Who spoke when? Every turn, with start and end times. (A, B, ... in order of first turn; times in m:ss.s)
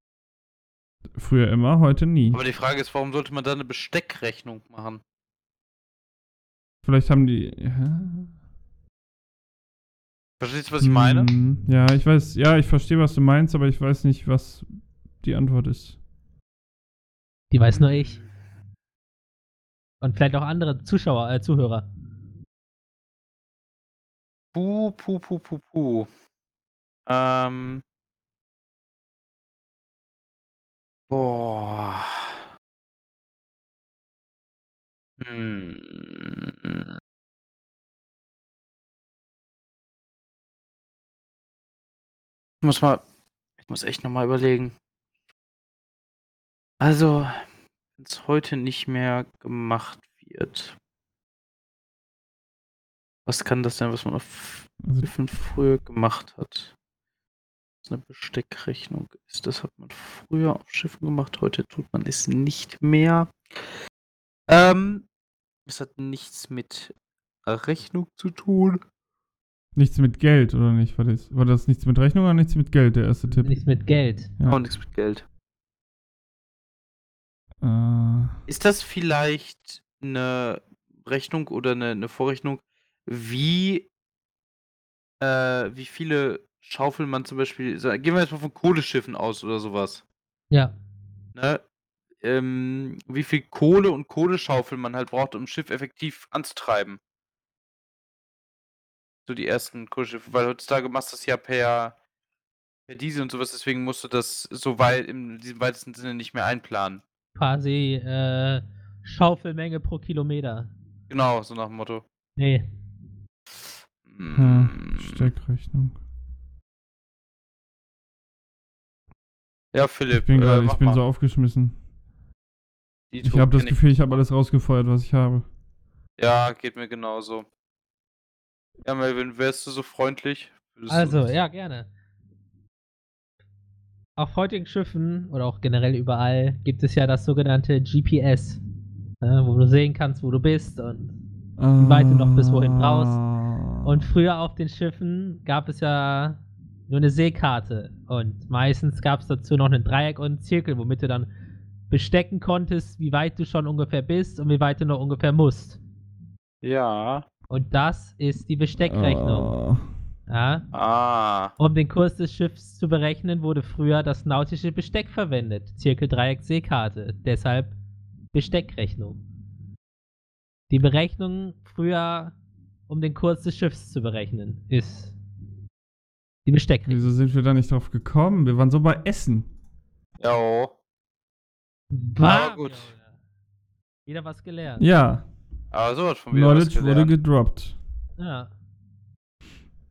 0:01.2-0:02.4 A
0:02.3-0:05.0 B
0:06.8-0:08.3 A
0:10.4-0:11.3 B
0:10.8-0:14.7 A
0:15.2-0:16.0 A
0:17.5-0:18.2 C
0:17.7-0:18.3 B
0:20.0-0:21.9 C
0:24.5-0:26.1 B
0:27.1-0:27.8 B
0:31.1-0:32.4 B
0:35.2-0:36.9 B
0:42.6-0:43.0 B
0:43.6-0:44.8 B
0:46.8-0:47.5 B
0:48.0-0:50.8 B
0:53.3-0:56.7 B
0:54.8-0:55.1 A
0:57.8-1:03.7 B
1:04.5-1:05.1 B
1:05.7-1:06.9 B
1:07.4-1:08.8 B
1:09.8-1:13.5 A
1:13.4-1:14.3 C
1:14.5-1:15.2 B
1:17.6-1:18.4 A
1:18.5-1:23.9 B
1:25.2-1:30.0 B
1:31.4-1:31.6 B
1:32.2-1:37.0 B
1:39.3-1:42.0 B
1:42.9-1:47.0 B
1:47.4-1:50.7 C
1:51.1-1:52.0 B
1:52.4-1:52.7 C
1:54.0-1:55.3 B
1:54.3-1:56.0 A
1:59.7-2:01.0 B
2:00.1-2:01.8 A
2:03.1-2:03.8 B
2:03.2-2:05.5 A
2:06.2-2:07.5 B
2:08.8-2:11.3 B
2:10.9-2:11.9 C
2:14.2-2:18.6 C
2:19.2-2:21.2 C
2:21.6-2:24.0 A
2:21.8-2:23.2 C
2:23.8-2:31.3 C
2:31.9-2:35.8 C
2:36.6-2:37.3 B
2:37.5-2:39.5 C
2:38.8-2:39.8 A
2:40.3-2:40.6 C
2:40.7-2:41.5 B
2:41.6-2:47.8 C
2:48.3-2:49.2 C
2:50.7-2:52.4 C
2:52.9-2:55.2 C
2:56.5-2:57.0 C
2:56.9-2:59.5 A
3:00.2-3:00.7 B
3:01.9-3:03.0 C
3:02.2-3:02.9 B
3:04.1-3:04.8 C
3:04.8-3:05.2 A
3:05.7-3:07.1 B
3:06.3-3:07.8 A
3:08.2-3:08.5 C